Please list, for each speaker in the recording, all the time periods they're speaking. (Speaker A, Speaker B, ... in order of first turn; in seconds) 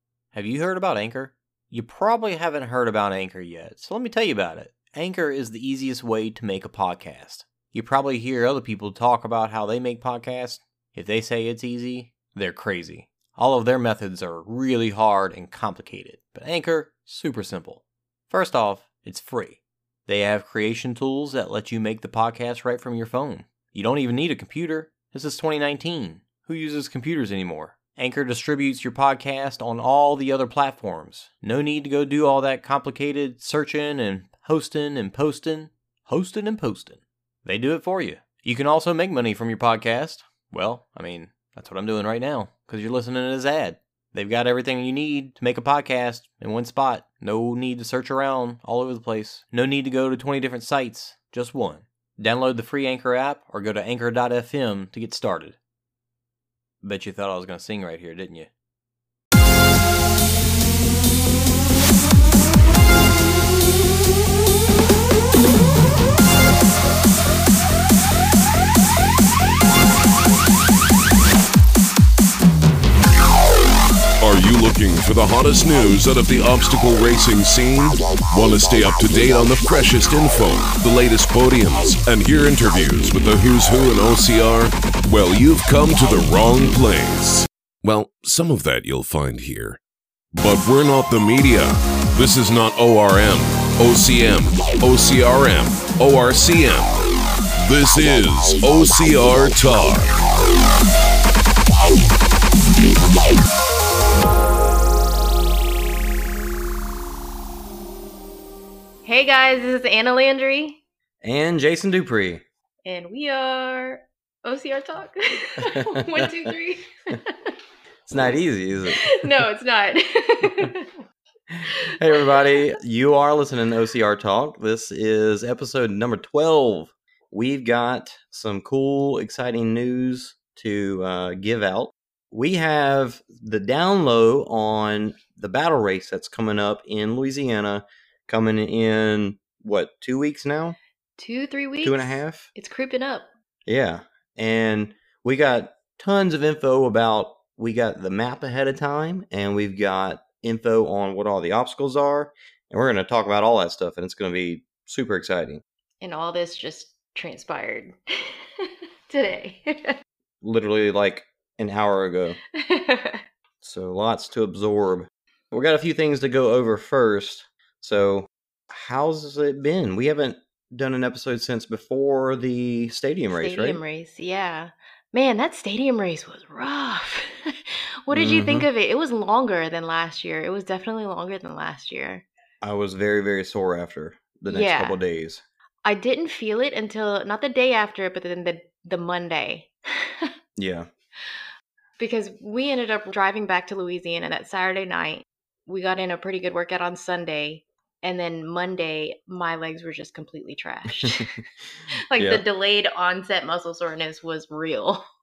Speaker A: 0.3-55.6, 56.8-58.5, 111.2-112.4, 115.7-116.3, 118.1-119.2, 121.5-140.8, 141.8-142.5, 143.7-155.6, 160.4-162.4, 163.6-173.8, 178.1-178.7, 182.6-185.4, 190.6-190.9, 202.2-202.4
Speaker B: 74.2-89.8, 90.3-97.0, 97.6-100.2
Speaker C: 109.0-110.8, 112.8-117.5, 119.0-121.0, 121.7-122.5, 141.2-143.3, 156.0-160.0, 162.6-163.2, 173.3-182.2, 184.5-185.0, 185.8-190.3, 192.0-201.4, 202.1-205.1